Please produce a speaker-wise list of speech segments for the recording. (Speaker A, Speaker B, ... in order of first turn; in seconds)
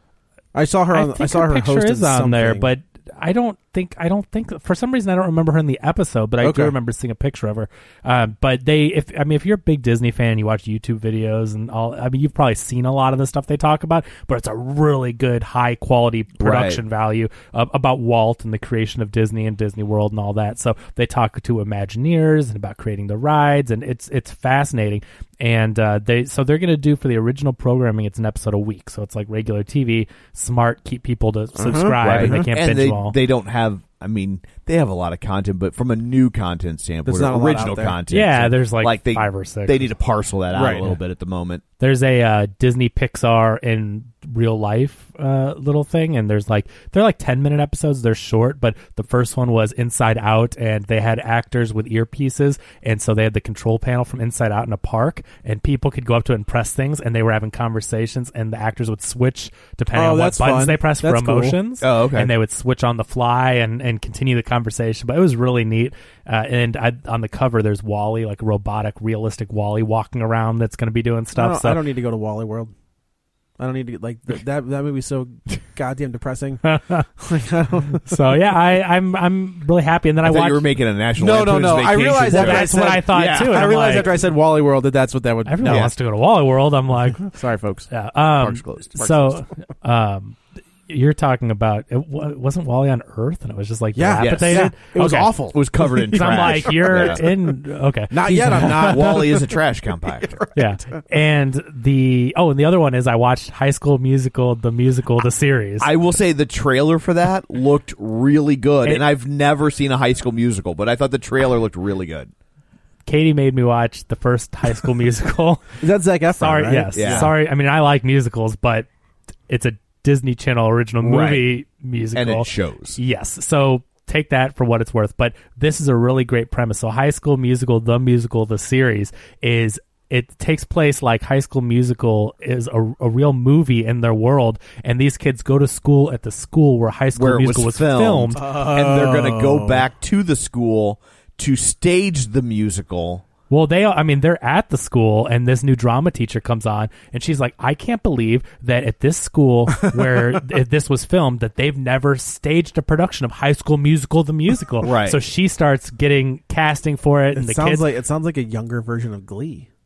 Speaker A: 0.5-2.7, 6.4-6.8, 31.6-32.4, 37.0-38.0, 40.5-40.9, 59.9-61.6, 71.3-72.7, 73.6-78.0, 81.2-85.9, 87.2-87.9, 89.0-89.4, 94.0-97.3, 98.1-101.0, 115.8-117.3, 138.3-139.8, 157.3-159.7
Speaker B: 0.9-33.2, 38.1-39.9, 41.8-71.8, 76.6-77.1, 78.0-80.7, 82.2-84.2, 85.5-87.3, 87.9-95.3, 96.1-99.2, 100.5-105.9, 113.0-115.8, 116.3-118.9, 119.5-138.4, 143.5-157.9
Speaker C: 16.4-16.8, 32.0-41.6, 61.8-62.3, 80.2-84.2, 85.6-85.9, 88.4-89.0, 94.2-94.7, 95.5-97.2, 98.3-100.4, 105.8-112.3, 116.9-117.3, 121.0-121.5, 122.1-123.0, 137.1-143.2, 154.8-155.2